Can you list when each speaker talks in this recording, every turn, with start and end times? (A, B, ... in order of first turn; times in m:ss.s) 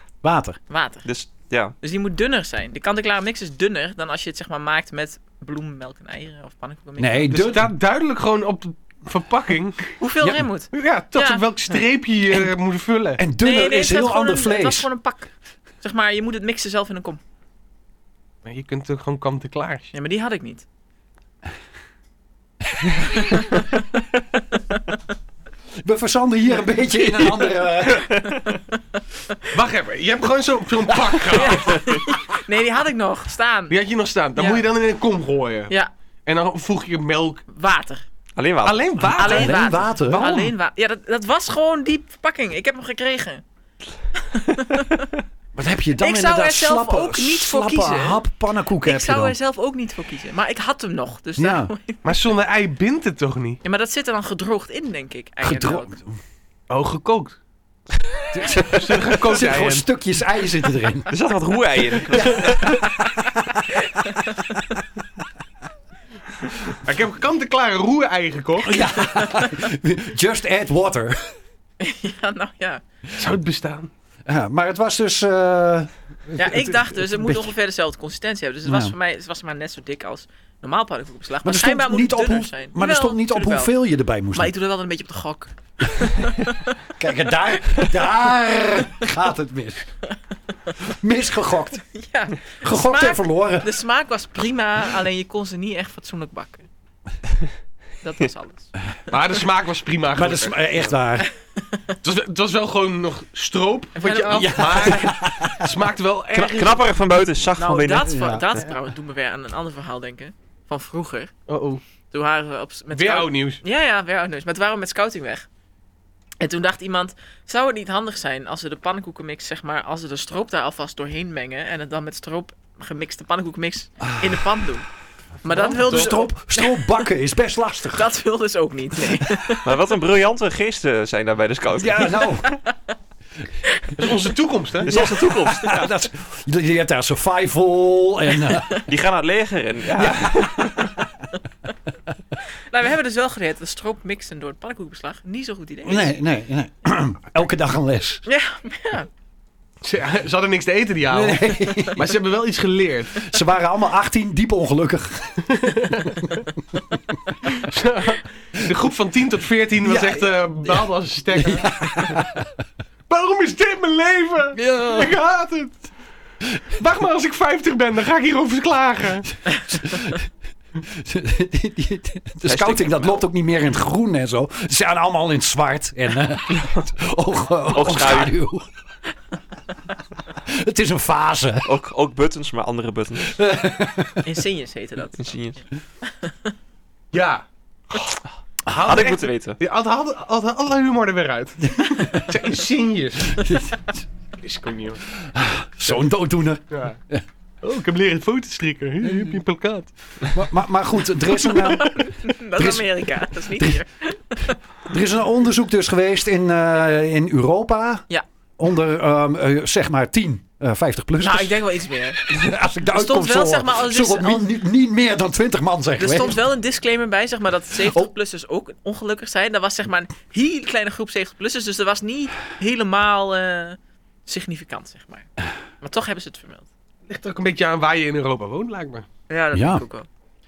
0:00.2-0:00.6 A
0:00.7-0:01.1 B
0:01.0-0:01.8 C
0:01.8-0:07.4 B
0:07.0-0:07.7 A
0:07.3-0:10.0 D
0:10.0-0:11.8 B
0:10.2-0:10.5 A
0:10.7-0:13.2 D
0:13.2-0:14.9 A
0:13.4-0:15.3 B
0:15.8-0:17.2 B
0:18.4-0:19.9 D
0:19.9-0:20.6 B
0:25.8-0:28.2 A
0:28.4-0:28.8 B
0:29.5-0:31.9 D
0:31.3-0:33.8 B
0:33.7-0:35.7 D
0:34.4-0:34.7 B
0:36.3-0:37.4 D
0:37.5-0:38.0 B
0:38.4-0:38.9 C
0:38.6-0:40.5 D
0:39.0-0:40.4 A
0:39.2-0:43.4 B
0:44.3-0:45.0 B
0:45.6-0:49.4 A
0:46.0-0:48.2 B
0:48.8-0:52.1 B
0:51.4-0:51.7 A
0:52.0-0:53.6 D
0:53.6-0:55.9 B
0:55.4-0:56.2 A
0:56.7-0:57.4 D
0:58.3-1:01.1 A
0:58.6-0:59.8 D
1:01.1-1:02.8 C
1:02.2-1:03.6 A
1:03.8-1:04.6 B
1:06.8-1:08.8 D
1:08.7-1:11.3 A
1:08.7-1:09.6 B
1:11.8-1:12.8 B
1:13.2-1:13.9 D
1:14.3-1:17.5 A
1:16.4-1:23.8 B
1:18.7-1:18.9 A
1:21.4-1:24.5 A
1:24.3-1:26.7 B
1:26.9-1:29.9 A
1:30.8-1:31.8 A
1:31.8-1:36.7 B
1:32.6-1:33.7 A
1:38.0-1:38.8 B
1:39.1-1:40.6 D
1:40.2-1:41.3 A
1:41.2-1:41.8 B
1:42.0-1:46.9 D
1:44.0-1:45.2 B
1:44.4-1:45.7 A
1:46.3-1:48.6 C
1:47.6-1:51.3 B
1:48.0-1:48.5 A
1:51.5-1:51.8 D
1:52.1-1:55.5 B
1:52.9-1:53.6 D
1:56.4-2:04.9 B
2:04.0-2:04.5 A
2:05.4-2:07.1 B
2:05.5-2:08.1 A
2:05.6-2:06.1 D
2:07.9-2:09.7 B
2:09.6-2:12.4 C
2:11.8-2:12.5 A
2:14.0-2:15.0 D
2:14.8-2:15.9 C
2:14.9-2:18.8 A
2:18.8-2:20.9 C
2:19.9-2:21.1 A
2:22.7-2:26.2 B
2:25.8-2:28.2 A
2:28.3-2:29.1 B
2:29.8-2:33.3 D
2:31.1-2:32.1 A
2:33.2-2:35.6 A
2:35.5-2:36.2 D
2:37.5-2:41.7 D
2:39.8-2:42.5 A
2:43.1-2:45.8 D
2:44.6-2:45.1 A
2:46.7-2:49.3 D
2:49.5-2:50.3 A
2:50.8-2:58.7 A
2:52.4-2:53.2 C
2:57.7-2:58.4 C
3:00.4-3:01.7 A
3:01.6-3:03.4 C
3:03.2-3:04.3 A
3:04.2-3:05.3 B
3:05.2-3:05.6 C
3:06.0-3:06.5 B
3:07.1-3:08.2 D
3:08.7-3:13.6 D
3:08.7-3:09.6 C
3:13.3-3:13.9 A
3:14.4-3:15.0 D
3:15.2-3:17.2 A
3:16.7-3:17.0 D
3:17.6-3:19.9 D
3:19.0-3:19.4 A
3:20.3-3:23.8 A
3:21.4-3:24.6 B
3:24.9-3:28.0 A
3:28.6-3:31.6 A
3:31.2-3:32.2 B
3:32.2-3:36.4 A
3:32.9-3:34.5 B
3:36.0-3:45.3 B
3:45.8-3:46.7 B
3:47.1-3:49.1 D
3:49.3-3:50.1 B
3:49.5-3:49.8 A